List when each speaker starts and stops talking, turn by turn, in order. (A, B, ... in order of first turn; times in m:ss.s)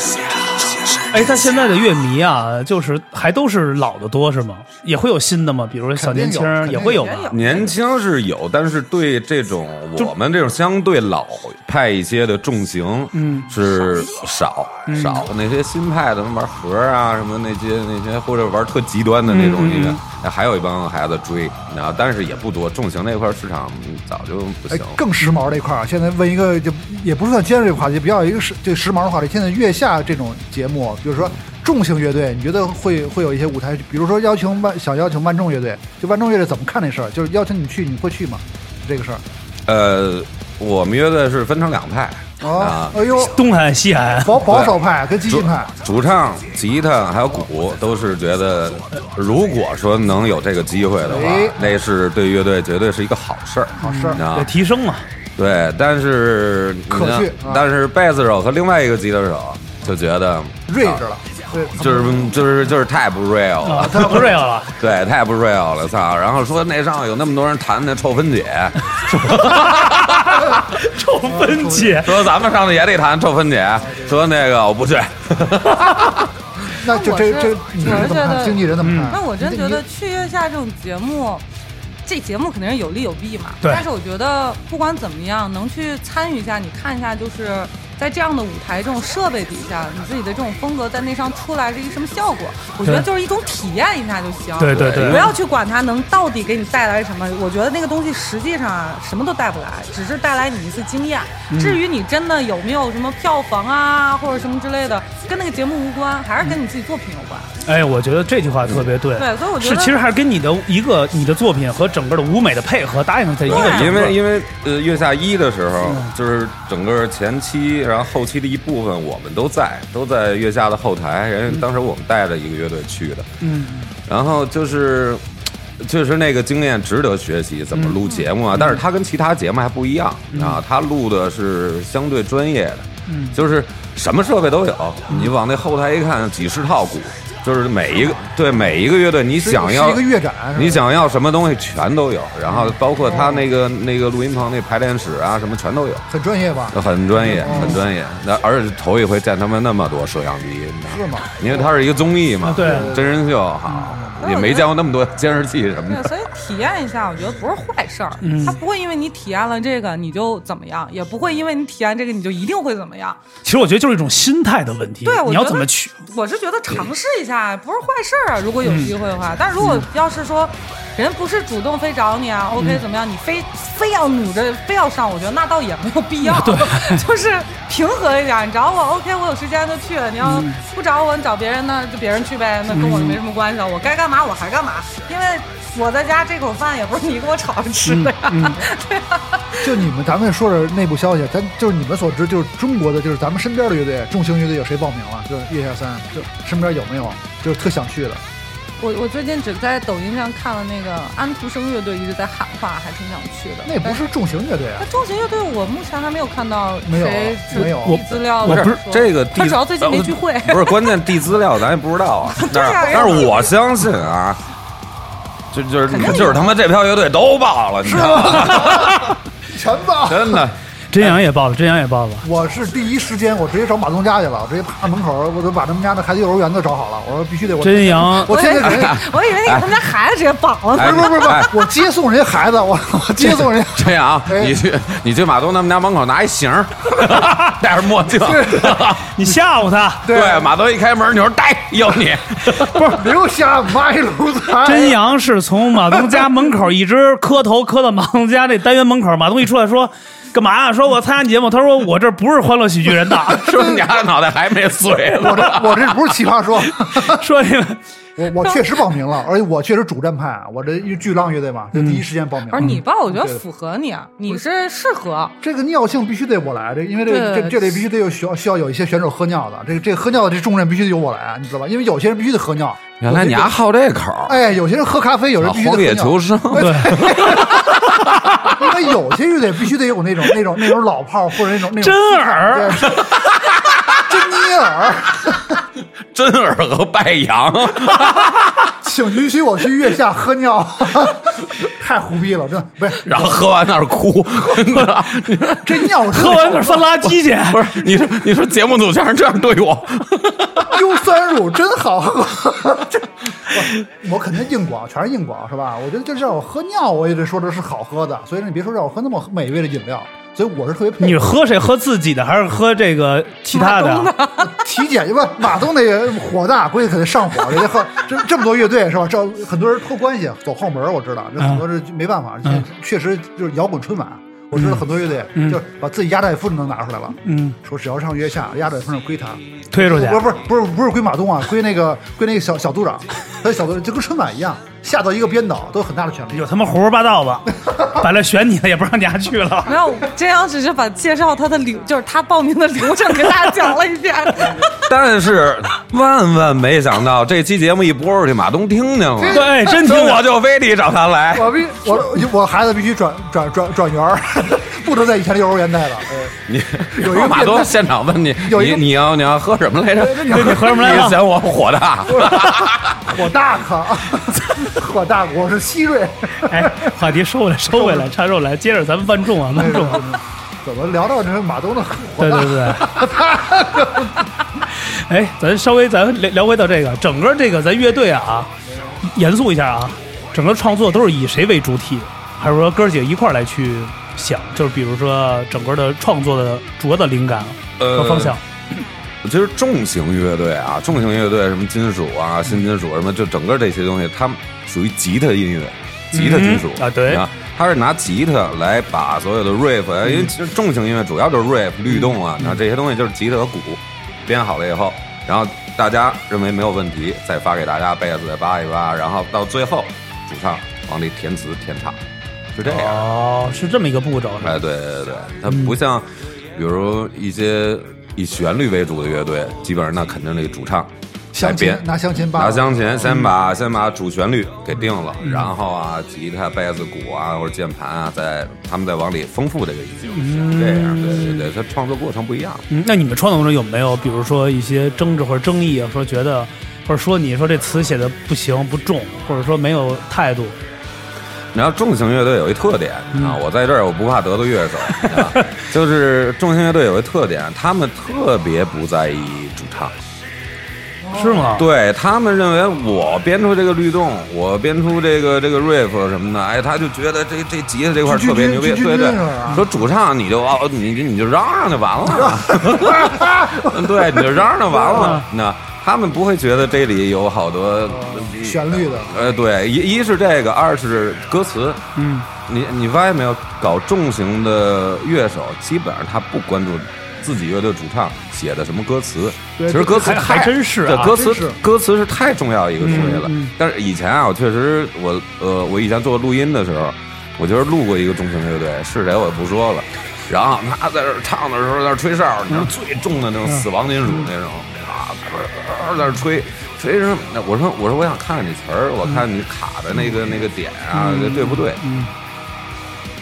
0:01.1-0:07.2 A
0:05.9-0:07.3 B
0:06.7-0:07.8 C
0:07.3-0:25.0 D
0:13.1-0:13.5 A
0:14.9-0:15.2 A
0:19.3-0:20.0 A
0:24.7-0:39.2 B
0:39.7-0:43.0 D
0:42.4-0:43.4 B
0:43.3-0:44.4 A
0:44.2-0:45.7 B
0:44.5-0:54.5 D
0:51.0-0:51.7 B
0:53.8-0:55.0 A
0:53.8-0:54.2 B
0:55.4-1:01.0 D
0:56.9-0:57.6 B
1:00.7-1:02.3 B
1:01.8-1:10.6 D
1:03.6-1:04.7 A
1:09.3-1:12.2 A
1:11.2-1:12.0 B
1:12.0-1:16.3 D
1:13.9-1:14.1 B
1:16.8-1:19.8 B
1:16.8-1:21.4 C
1:18.8-1:19.1 A
1:22.0-1:47.5 C
1:34.6-1:35.3 A
1:34.7-1:35.4 D
1:41.5-1:41.8 A
1:47.6-1:54.2 A
1:49.1-1:50.0 C
1:53.5-2:03.3 D
1:53.5-1:54.0 C
2:03.4-2:03.9 A
2:04.0-2:05.2 D
2:05.8-2:20.0 D
2:08.5-2:08.8 A
2:10.3-2:10.6 A
2:13.1-2:13.4 A
2:19.4-2:20.8 B
2:20.5-2:26.0 D
2:23.0-2:23.5 B
2:26.1-2:27.8 B
2:26.7-2:36.1 D
2:27.4-2:27.7 A
2:30.9-2:31.7 B
2:32.4-2:32.9 A
2:32.6-2:33.2 B
2:34.2-2:34.7 C
2:35.9-2:43.2 C
2:38.2-2:38.6 A
2:43.4-2:45.9 A
2:45.0-3:09.8 C
2:48.6-2:48.9 A
2:49.6-2:49.8 A
2:52.6-2:52.8 A
2:56.2-2:57.0 A
3:00.2-3:00.6 A
3:02.7-3:03.2 A
3:07.8-3:08.6 A
3:09.6-3:18.2 B
3:18.8-3:24.1 C
3:23.6-3:24.9 B
3:24.8-3:31.1 C
3:26.8-3:28.0 B
3:27.5-3:28.8 A
3:28.3-3:34.4 D
3:32.3-3:33.5 C
3:35.5-3:39.1 D
3:35.9-3:36.4 B
3:37.8-3:40.4 B
3:40.0-3:41.1 D
3:40.9-3:42.2 A
3:42.2-3:49.0 B
3:47.6-3:48.3 A
3:48.3-3:51.3 C
3:48.6-3:49.8 D
3:50.7-3:51.5 D
3:50.8-3:54.6 B
3:53.3-3:59.2 D
3:58.2-3:58.9 B
3:59.0-4:00.1 A
4:00.0-4:00.5 B
4:00.1-4:03.0 D
4:02.6-4:05.0 B
4:04.6-4:13.5 A
4:13.1-4:16.0 D
4:13.5-4:13.8 B
4:15.2-4:17.2 B
4:16.9-4:17.8 A
4:18.2-4:23.4 B
4:21.7-4:22.0 A
4:22.5-4:25.3 C
4:25.4-4:33.5 B
4:27.1-4:27.8 C
4:33.0-4:34.4 D
4:34.3-4:37.8 B
4:35.4-4:38.6 D
4:36.5-4:37.0 A
4:38.6-4:43.1 B
4:41.8-4:43.0 A
4:42.9-4:44.2 D
4:44.0-4:45.6 B
4:46.1-4:48.7 D
4:48.8-4:53.3 B
4:52.9-4:55.9 D
4:55.6-4:56.9 B
4:56.0-4:57.8 A
4:57.5-5:00.7 D
5:00.6-5:11.3 B
5:11.0-5:14.1 A
5:13.5-5:14.7 C
5:14.4-5:36.5 B
5:24.5-5:24.8 A
5:25.3-5:25.6 A
5:27.2-5:27.6 A
5:29.7-5:30.2 A
5:36.3-5:39.8 A
5:39.6-5:44.7 C
5:44.7-5:51.6 D
5:49.2-5:49.7 B
5:49.3-5:50.3 A
5:51.3-5:56.3 B
5:56.5-6:03.0 D
5:56.9-5:57.7 B
5:58.4-5:58.9 B
6:00.0-6:01.1 B
6:00.3-6:01.2 A
6:02.1-6:07.0 B
6:06.4-6:10.1 A
6:07.7-6:08.1 B
6:09.5-6:14.3 B
6:12.2-6:13.0 A
6:14.7-6:18.5 A
6:19.0-6:28.4 A
6:27.8-6:28.4 D
6:29.2-6:52.0 D
6:36.1-6:37.2 A
6:40.0-6:40.3 A
6:41.9-6:42.6 A
6:52.5-6:53.0 D
6:52.6-6:54.6 A
6:54.4-7:12.7 D
6:55.5-6:55.7 A
7:01.3-7:03.1 B
7:05.2-7:05.5 A
7:10.1-7:11.5 A
7:12.7-7:20.6 A
7:21.5-7:29.9 D
7:31.0-7:31.5 B
7:31.1-7:31.6 A
7:31.6-7:51.8 D
7:38.0-7:39.6 B
7:42.1-7:45.2 B
7:44.9-7:45.2 A
7:47.9-7:49.1 B
7:52.0-7:52.3 A
7:52.4-8:21.8 D
7:59.6-8:00.0 B
7:59.8-8:01.1 A
8:01.1-8:01.6 B
8:02.8-8:03.5 A
8:13.5-8:14.2 A
8:20.9-8:22.1 A